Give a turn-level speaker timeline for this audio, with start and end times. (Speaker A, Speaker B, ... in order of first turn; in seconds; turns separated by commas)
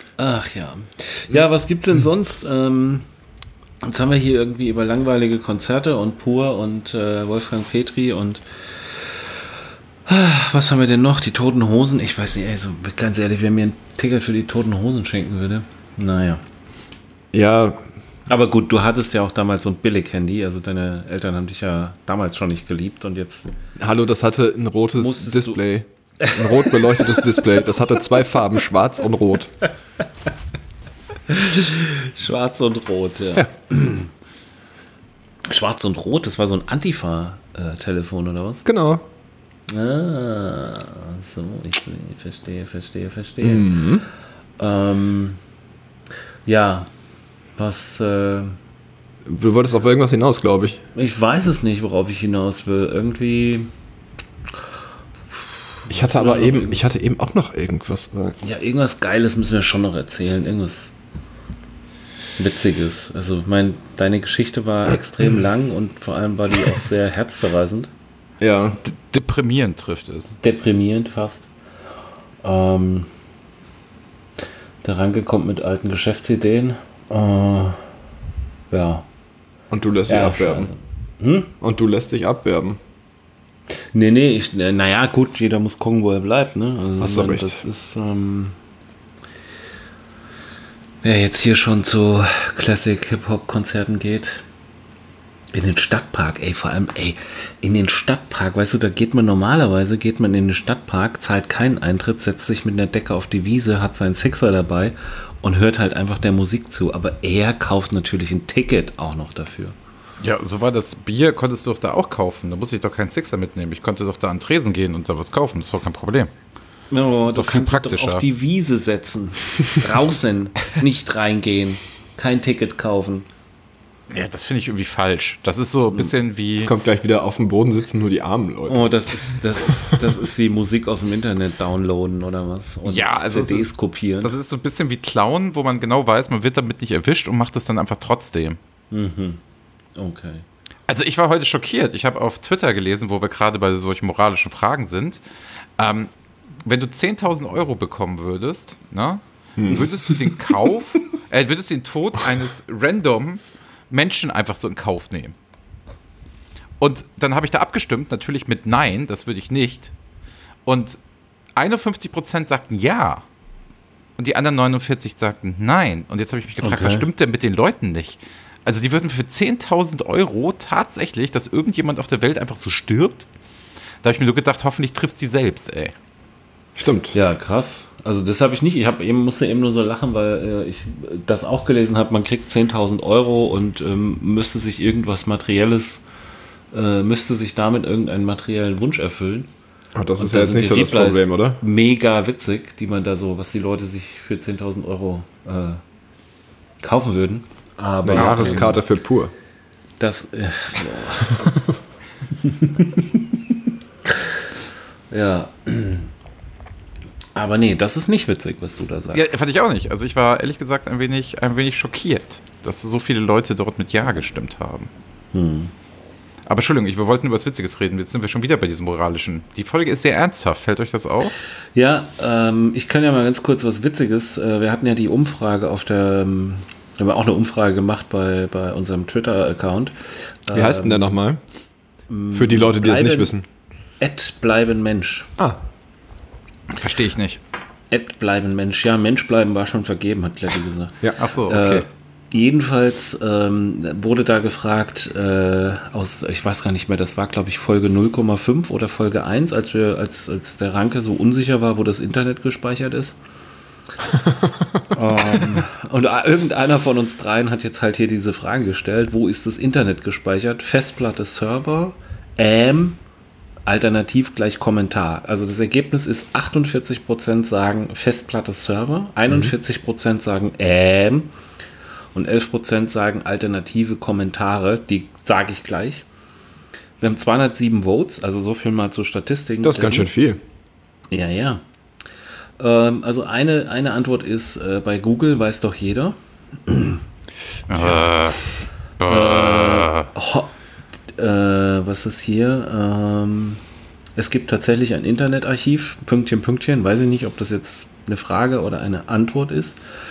Speaker A: 0.2-3.0, Speaker A: 3.8-9.4, Speaker A: 10.1-16.4, Speaker B: 17.3-17.9, Speaker A: 18.3-23.5, Speaker B: 23.8-29.6, Speaker A: 25.0-25.6, Speaker A: 26.2-27.5, Speaker A: 31.3-34.1, Speaker A: 35.5-38.6, Speaker B: 38.6-39.1, Speaker A: 39.7-43.8, Speaker B: 43.4-44.0, Speaker A: 44.6-45.4, Speaker A: 46.5-46.9, Speaker A: 47.6-48.6, Speaker B: 49.2-50.8, Speaker A: 50.9-53.7, Speaker A: 55.3-56.8, Speaker B: 55.9-58.4, Speaker A: 58.4-60.9, Speaker A: 62.4-67.9, Speaker B: 68.4-68.8, Speaker C: 68.8-70.4, Speaker A: 70.4-71.5, Speaker A: 72.4-73.1, Speaker A: 74.8-77.8, Speaker A: 78.7-79.1, Speaker B: 79.7-80.7, Speaker A: 80.1-81.5, Speaker B: 81.6-82.8, Speaker A: 83.9-88.5, Speaker B: 87.0-87.6, Speaker A: 91.0-94.4, Speaker A: 95.5-109.8, Speaker C: 110.2-116.3, Speaker A: 116.9-123.3, Speaker C: 117.3-118.2, Speaker C: 124.1-126.7, Speaker B: 126.6-128.9, Speaker A: 128.7-134.3, Speaker C: 132.8-133.7, Speaker C: 134.2-138.6, Speaker A: 138.9-139.4, Speaker A: 139.9-140.4, Speaker C: 140.9-145.2, Speaker C: 145.8-146.1, Speaker C: 146.6-155.3, Speaker B: 149.6-149.9, Speaker C: 156.8-159.9, Speaker C: 160.7-161.0, Speaker C: 161.6-163.2, Speaker C: 164.2-173.3, Speaker A: 166.6-167.1, Speaker C: 174.0-175.9, Speaker B: 176.8-177.2, Speaker A: 177.1-186.0, Speaker A: 186.7-189.5, Speaker B: 189.9-191.6, Speaker A: 190.2-195.8, Speaker A: 196.8-198.8, Speaker B: 198.0-199.3, Speaker C: 198.1-198.7, Speaker A: 200.0-201.5, Speaker A: 202.4-203.4, Speaker A: 204.1-204.4, Speaker A: 205.1-206.1, Speaker A: 207.3-209.4, Speaker C: 209.1-214.9, Speaker A: 215.3-215.7, Speaker C: 216.4-221.4, Speaker A: 221.7-231.1, Speaker B: 230.5-231.4, Speaker A: 232.1-233.3, Speaker B: 232.3-233.4, Speaker A: 234.0-235.3, Speaker C: 236.7-237.4, Speaker A: 237.9-253.2, Speaker C: 241.2-241.8, Speaker A: 254.9-263.0, Speaker A: 263.6-271.3, Speaker A: 272.1-276.1, Speaker A: 277.0-280.1, Speaker B: 279.6-280.4, Speaker A: 281.1-281.6, Speaker A: 282.6-287.0, Speaker C: 287.7-288.4, Speaker C: 289.0-290.1, Speaker A: 289.0-290.5, Speaker A: 291.1-293.6, Speaker A: 294.1-299.8